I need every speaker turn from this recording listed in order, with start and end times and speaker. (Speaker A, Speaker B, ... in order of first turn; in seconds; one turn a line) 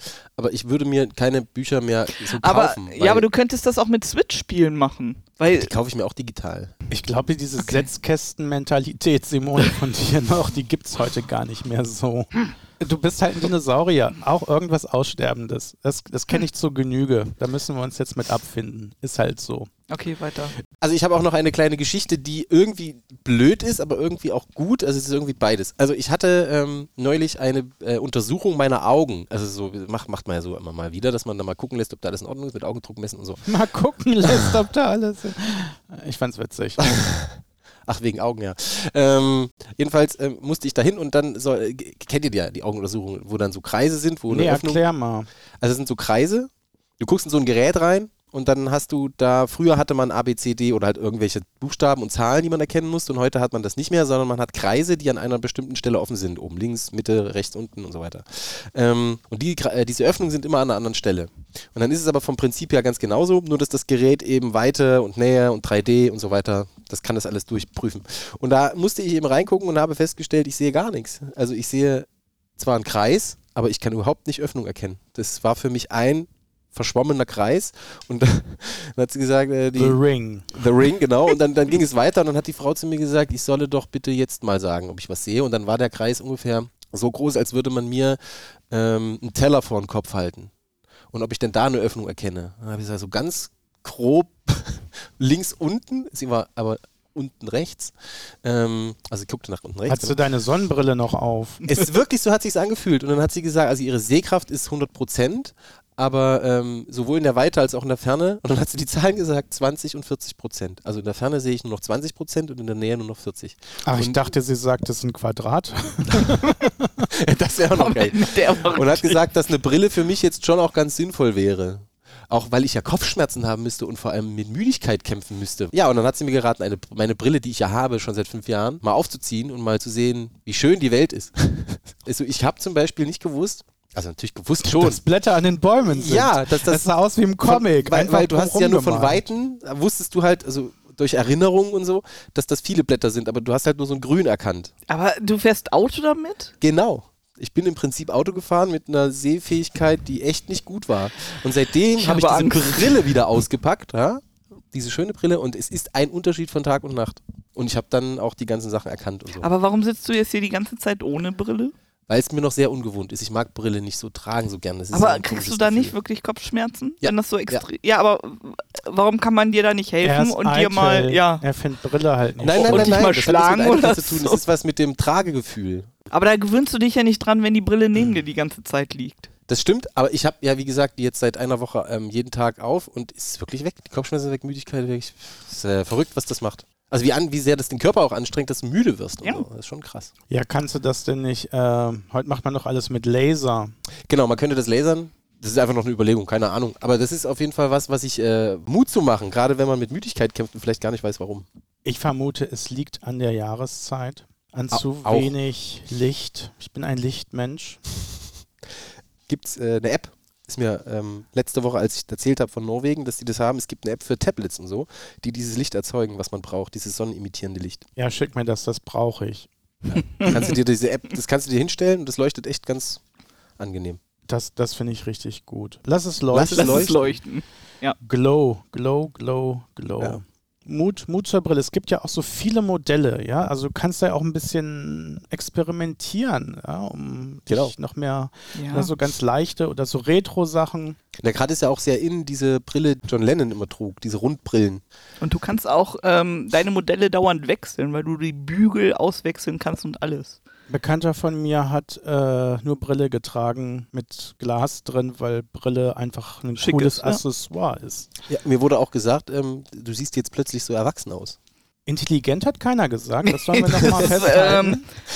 Speaker A: 0.3-3.3
Speaker B: 2.2-5.7
Speaker A: 5.5-6.7
Speaker C: 6.9-19.7
Speaker B: 19.9-20.6
Speaker A: 20.8-33.4
Speaker C: 33.5-37.0
Speaker A: 36.8-37.4
Speaker A: 37.9-44.8
Speaker C: 44.3-45.3
Speaker A: 45.6-80.0
Speaker C: 79.8-80.6
Speaker A: 80.5-88.2
Speaker A: 88.7-90.5
Speaker A: 91.1-100.2
Speaker C: 99.9-101.6
Speaker A: 101.7-114.2
Speaker C: 113.8-117.1
Speaker A: 117.1-135.0
Speaker B: 117.8-119.2
Speaker C: 134.6-139.3
Speaker A: 135.8-136.9
Speaker A: 137.4-144.7
Speaker B: 144.9-146.5
Speaker A: 146.6-159.5
Speaker B: 152.0-153.1
Speaker B: 159.4-161.7
Speaker A: 162.1-165.9
Speaker B: 164.9-171.4
Speaker A: 167.0-167.6
Speaker C: 170.0-173.0
Speaker A: 172.4-175.9
Speaker B: 172.5-174.4
Speaker B: 176.1-179.3
Speaker A: 179.5-190.1
Speaker C: 190.3-193.7
Speaker A: 194.1-201.4
Speaker C: 201.8-207.8
Speaker A: 204.7-205.3
Speaker A: 209.3-217.8
Speaker C: 217.9-219.5
Speaker A: 219.9-223.0
Speaker A: 223.6-224.0
Speaker C: 224.3-227.1
Speaker A: 226.3-227.1
Speaker B: 226.5-228.0
Speaker C: 228.0-241.0
Speaker B: 238.5-238.9
Speaker A: 241.2-244.8
Speaker B: 245.2-250.4
Speaker C: 250.7-258.1
Speaker B: 256.6-257.2
Speaker A: 258.3-261.4
Speaker C: 261.9-264.9
Speaker B: 263.3-264.8